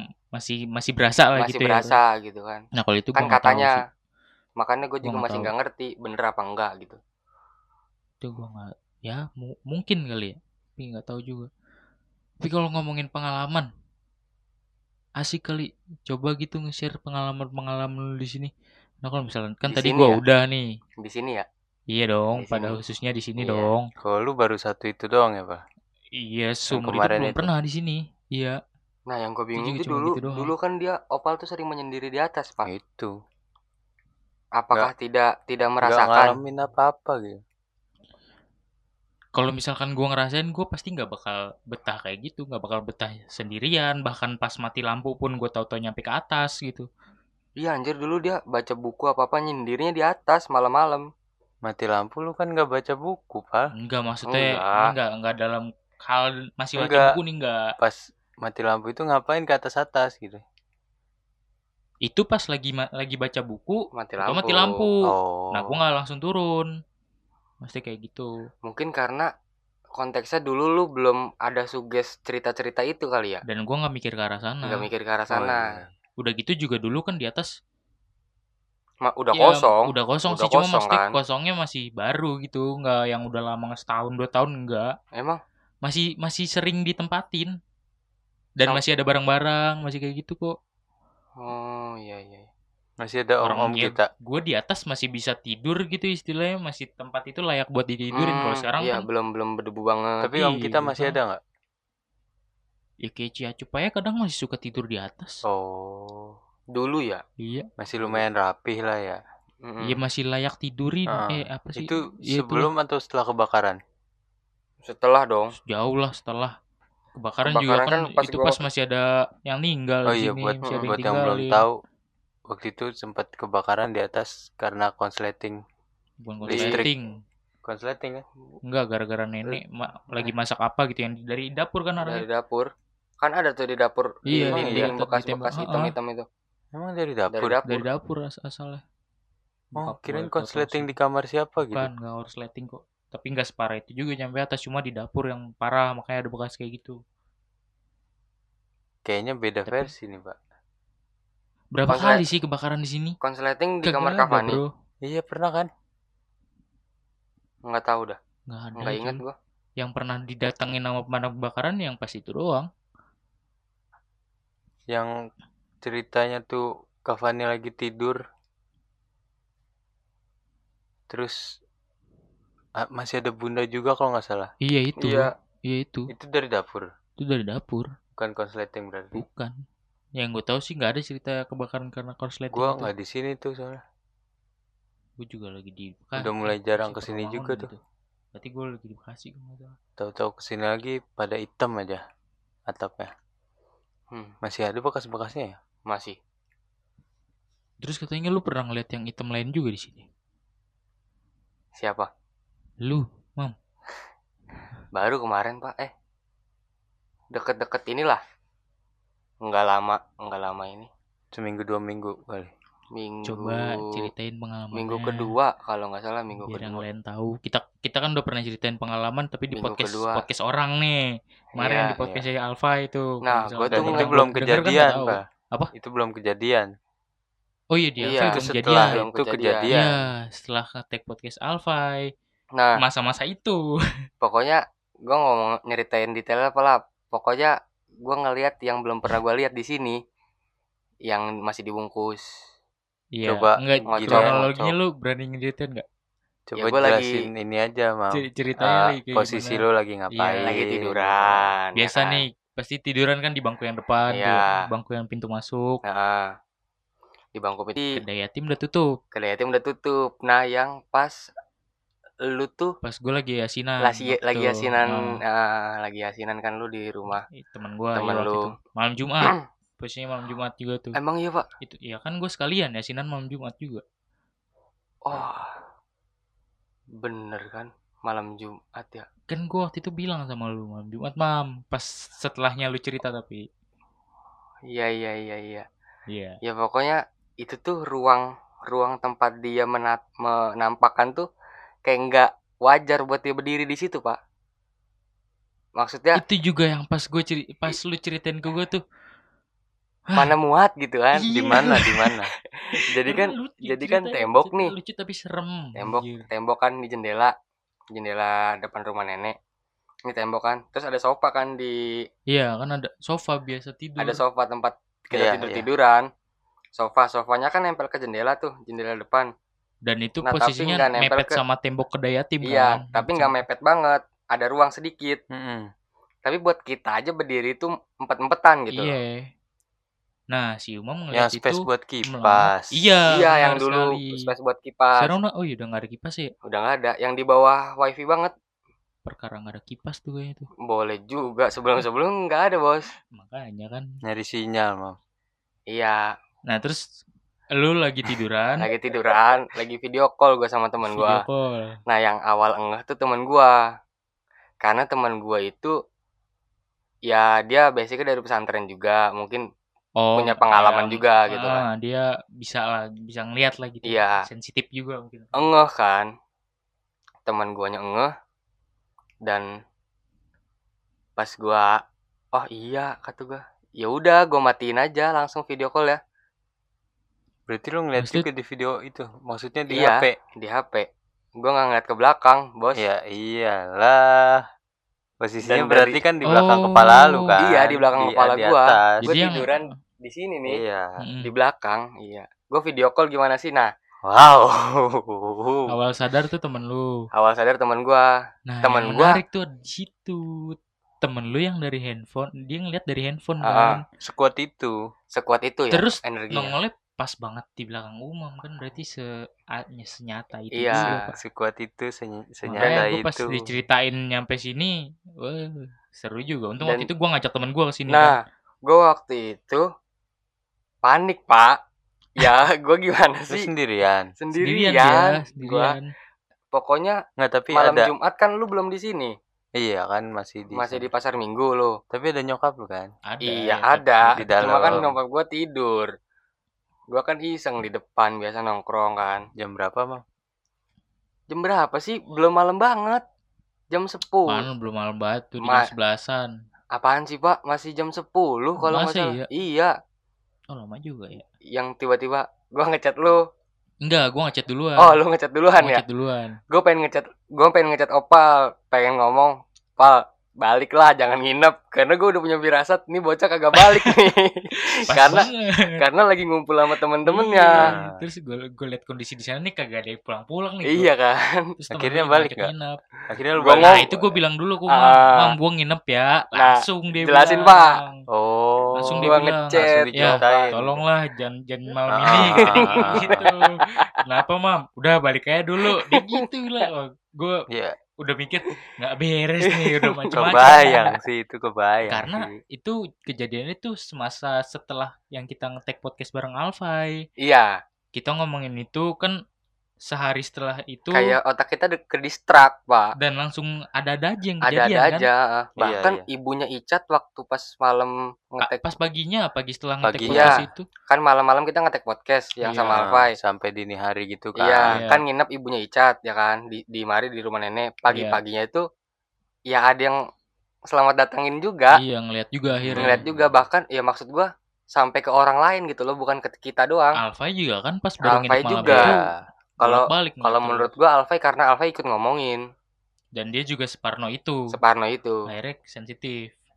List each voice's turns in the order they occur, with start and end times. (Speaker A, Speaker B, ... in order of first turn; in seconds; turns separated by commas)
Speaker A: 0.3-2.0, Speaker B: 1.4-2.6, Speaker A: 2.8-3.8, Speaker B: 3.1-3.8, Speaker B: 4.6-7.0, Speaker A: 5.0-5.5, Speaker A: 8.2-11.5, Speaker A: 12.4-13.7, Speaker A: 15.2-18.5, Speaker A: 19.0-20.6, Speaker B: 19.7-20.2, Speaker B: 21.0-21.4, Speaker A: 21.9-23.9, Speaker B: 22.4-22.8, Speaker B: 23.4-23.7, Speaker C: 24.0-25.6, Speaker A: 26.2-28.6, Speaker C: 26.7-27.5, Speaker B: 29.1-32.7, Speaker A: 29.5-30.5, Speaker C: 32.6-33.1, Speaker B: 34.6-36.3, Speaker C: 35.8-37.4, Speaker A: 39.4-46.9, Speaker B: 47.6-51.0, Speaker C: 51.6-53.7, Speaker A: 53.8-57.6, Speaker B: 54.3-54.9, Speaker C: 56.8-57.1, Speaker C: 57.8-60.4, Speaker A: 62.0-65.0, Speaker B: 63.9-64.8, Speaker C: 65.0-65.7, Speaker A: 65.5-66.7, Speaker A: 67.6-68.3, Speaker B: 68.6-69.3, Speaker B: 70.0-73.4, Speaker A: 73.5-74.9, Speaker B: 74.7-75.7, Speaker C: 75.3-75.9, Speaker A: 76.2-77.5, Speaker B: 79.0-81.2, Speaker A: 79.3-84.9, Speaker A: 85.8-87.5, Speaker A: 88.6-90.5, Speaker B: 91.4-92.5, Speaker C: 93.0-94.1, Speaker A: 93.4-99.0, Speaker B: 98.1-100.3, Speaker C: 100.2-101.4, Speaker A: 100.4-101.2, Speaker A: 103.0-105.4, Speaker C: 105.5-106.3, Speaker B: 106.7-107.2, Speaker A: 107.4-107.7, Speaker C: 107.8-109.2, Speaker B: 109.6-110.0, Speaker A: 109.9-112.7, Speaker C: 111.1-113.8, Speaker B: 114.8-115.5, Speaker A: 115.6-116.5, Speaker A: 117.2-121.6, Speaker B: 117.5-118.6, Speaker C: 120.1-121.8, Speaker C: 122.5-125.6, Speaker A: 126.2-127.1, Speaker B: 126.5-126.8, Speaker C: 126.5-126.9, Speaker C: 127.6-128.2, Speaker A: 128.7-132.2, Speaker B: 132.0-132.7, Speaker B: 133.2-136.2, Speaker A: 134.3-135.9, Speaker C: 134.5-134.9, Speaker C: 136.7-137.6, Speaker B: 137.3-137.8, Speaker A: 137.7-138.8, Speaker A: 139.8-140.9, Speaker C: 139.8-141.9, Speaker A: 141.6-147.0, Speaker C: 149.1-150.4, Speaker A: 149.7-149.9, Speaker A: 151.7-153.2, Speaker B: 151.9-152.2, Speaker B: 153.2-154.6, Speaker A: 153.8-154.7, Speaker C: 155.0-155.7, Speaker B: 157.7-158.2, Speaker A: 158.5-159.2, Speaker B: 158.8-159.3, Speaker A: 159.8-162.7, Speaker C: 165.8-168.2, Speaker C: 171.1-171.4, Speaker C: 172.8-174.5, Speaker A: 174.6-176.1, Speaker B: 175.0-175.3, Speaker C: 176.1-176.9, Speaker A: 177.2-177.9, Speaker C: 178.2-179.2, Speaker A: 179.1-179.5, Speaker A: 180.2-182.9, Speaker C: 182.5-183.8, Speaker A: 185.2-187.8, Speaker C: 186.2-187.7, Speaker A: 188.3-189.8, Speaker C: 190.0-192.0, Speaker C: 192.7-193.1, Speaker C: 194.4-195.6, Speaker B: 195.9-196.2, Speaker A: 197.8-200.1, Speaker B: 201.8-202.1, Speaker A: 202.8-203.5, Speaker B: 204.9-205.9, Speaker B: 207.3-208.2, Speaker B: 209.4-210.9, Speaker C: 211.3-212.5, Speaker B: 212.9-214.1, Speaker A: 213.2-215.3, Speaker B: 214.8-216.8, Speaker A: 216.4-221.0, Speaker B: 219.6-220.2, Speaker A: 221.6-225.7, Speaker B: 221.6-222.0, Speaker B: 223.2-224.2, Speaker C: 223.7-225.2, Speaker C: 225.7-226.7, Speaker A: 227.7-229.0, Speaker B: 228.0-229.7, Speaker C: 228.3-230.0, Speaker A: 229.7-232.1, Speaker B: 232.5-232.8, Speaker A: 232.8-233.6, Speaker B: 234.2-240.0, Speaker B: 241.1-242.2, Speaker A: 243.2-245.8, Speaker C: 243.2-244.7, Speaker B: 243.9-244.4, Speaker C: 246.5-251.5, Speaker B: 246.6-247.2, Speaker A: 248.1-249.6, Speaker A: 250.1-250.5, Speaker B: 250.4-252.2, Speaker A: 251.8-255.7, Speaker B: 254.1-254.6, Speaker B: 255.8-256.3, Speaker B: 257.4-258.0, Speaker A: 257.9-258.9, Speaker B: 259.1-261.1, Speaker B: 262.2-262.7, Speaker A: 262.8-265.1, Speaker B: 263.8-267.2, Speaker A: 267.3-271.0, Speaker B: 267.9-268.5, Speaker B: 270.9-271.4, Speaker A: 271.6-273.8, Speaker B: 275.1-275.6, Speaker B: 277.0-279.1, Speaker A: 279.3-283.4, Speaker B: 284.7-285.6, Speaker A: 286.1-286.4, Speaker B: 286.4-291.2, Speaker B: 291.8-294.2, Speaker B: 295.8-296.2, Speaker A: 296.2-298.8, Speaker B: 300.1-301.3, Speaker A: 301.2-302.1, Speaker C: 301.3-302.3, Speaker B: 302.6-304.7, Speaker A: 302.7-306.2, Speaker B: 305.8-307.3, Speaker B: 307.9-309.3, Speaker B: 310.1-311.8, Speaker A: 312.3-314.2, Speaker B: 314.0-316.1, Speaker C: 315.1-315.7, Speaker B: 316.8-319.3, Speaker A: 319.9-323.4, Speaker B: 320.2-321.4, Speaker B: 322.5-325.2, Speaker C: 325.3-325.7, Speaker B: 326.2-328.9, Speaker A: 328.7-329.3, Speaker A: 330.3-334.3, Speaker C: 331.1-332.7, Speaker B: 333.1-335.1, Speaker A: 335.0-336.3, Speaker B: 336.4-338.3, Speaker A: 339.1-340.5, Speaker B: 340.6-342.9, Speaker A: 343.1-343.9, Speaker C: 344.1-345.0, Speaker B: 345.7-346.0, Speaker A: 346.5-346.8, Speaker A: 347.6-348.7, Speaker B: 348.6-351.2, Speaker A: 350.9-351.8, Speaker B: 351.9-353.5, Speaker B: 354.6-355.7, Speaker B: 357.1-359.4, Speaker A: 360.0-365.3, Speaker B: 360.2-361.6, Speaker B: 363.9-364.2, Speaker B: 365.4-366.1, Speaker B: 367.2-368.1, Speaker B: 371.2-371.8, Speaker B: 372.3-376.0, Speaker C: 377.5-380.1, Speaker A: 378.0-378.2, Speaker B: 379.7-380.9, Speaker B: 381.4-382.8, Speaker C: 382.8-384.4, Speaker C: 385.2-389.1, Speaker B: 385.4-386.0, Speaker A: 386.3-387.4, Speaker B: 387.4-390.6, Speaker A: 389.0-389.6, Speaker C: 390.5-391.0, Speaker A: 391.0-391.3, Speaker B: 391.2-393.7, Speaker C: 394.1-395.7, Speaker A: 395.7-396.9, Speaker B: 397.1-398.1, Speaker A: 398.5-403.8, Speaker B: 398.6-399.2, Speaker B: 403.4-403.8, Speaker C: 404.0-404.8, Speaker B: 405.1-406.5, Speaker A: 405.7-409.1, Speaker A: 409.6-411.1, Speaker B: 410.6-411.0, Speaker C: 410.8-413.3, Speaker A: 412.5-418.1, Speaker B: 416.6-416.9, Speaker B: 418.6-419.6, Speaker B: 420.8-421.6, Speaker B: 422.2-423.5, Speaker C: 423.3-424.1, Speaker B: 424.2-425.7, Speaker A: 424.4-425.9, Speaker B: 426.5-427.0, Speaker C: 427.2-427.9, Speaker B: 427.5-429.1, Speaker C: 429.6-430.9, Speaker B: 430.6-431.8, Speaker C: 431.9-432.9, Speaker A: 433.1-434.9, Speaker B: 433.3-435.9, Speaker C: 434.2-434.8, Speaker B: 436.9-439.2, Speaker C: 439.4-440.0, Speaker B: 441.3-443.0, Speaker B: 443.7-444.4, Speaker A: 444.3-446.3, Speaker B: 445.4-445.7, Speaker B: 446.7-449.7, Speaker A: 448.6-449.3, Speaker A: 450.5-451.2, Speaker B: 451.5-453.2, Speaker A: 453.8-455.0, Speaker B: 454.8-455.8, Speaker A: 455.6-456.4, Speaker B: 456.5-467.7, Speaker A: 463.6-463.9, Speaker A: 464.6-465.8, Speaker A: 467.0-470.9, Speaker C: 467.6-468.0, Speaker B: 470.7-471.4, Speaker A: 471.6-472.8, Speaker C: 471.7-472.5, Speaker C: 473.1-474.2, Speaker B: 473.4-473.9, Speaker A: 473.6-477.9, Speaker B: 474.7-475.3, Speaker B: 476.4-477.6, Speaker C: 478.1-480.8, Speaker A: 478.8-487.4, Speaker B: 479.0-480.5, Speaker C: 481.9-483.3, Speaker B: 482.1-483.8, Speaker B: 485.6-486.2, Speaker C: 487.5-487.8, Speaker A: 488.0-490.9, Speaker B: 489.5-490.9, Speaker C: 490.1-492.3, Speaker A: 491.9-497.0, Speaker B: 497.2-497.6, Speaker A: 497.9-499.1, Speaker A: 499.9-501.2, Speaker B: 500.9-502.9, Speaker A: 503.0-505.1, Speaker B: 504.4-508.7, Speaker C: 505.6-506.0, Speaker A: 508.4-510.7, Speaker C: 509.8-510.4, Speaker B: 510.1-513.1, Speaker A: 512.4-512.8, Speaker C: 512.7-514.8, Speaker B: 514.4-518.6, Speaker A: 514.6-515.0, Speaker A: 517.9-518.2, Speaker B: 519.5-520.0, Speaker B: 520.7-521.8, Speaker A: 521.8-523.2, Speaker C: 522.6-523.0, Speaker B: 522.7-527.0, Speaker A: 527.0-529.0, Speaker B: 528.0-528.9, Speaker C: 528.6-529.1, Speaker A: 529.6-530.7, Speaker B: 529.6-532.4, Speaker A: 533.1-534.4, Speaker B: 534.5-535.2, Speaker A: 535.3-536.3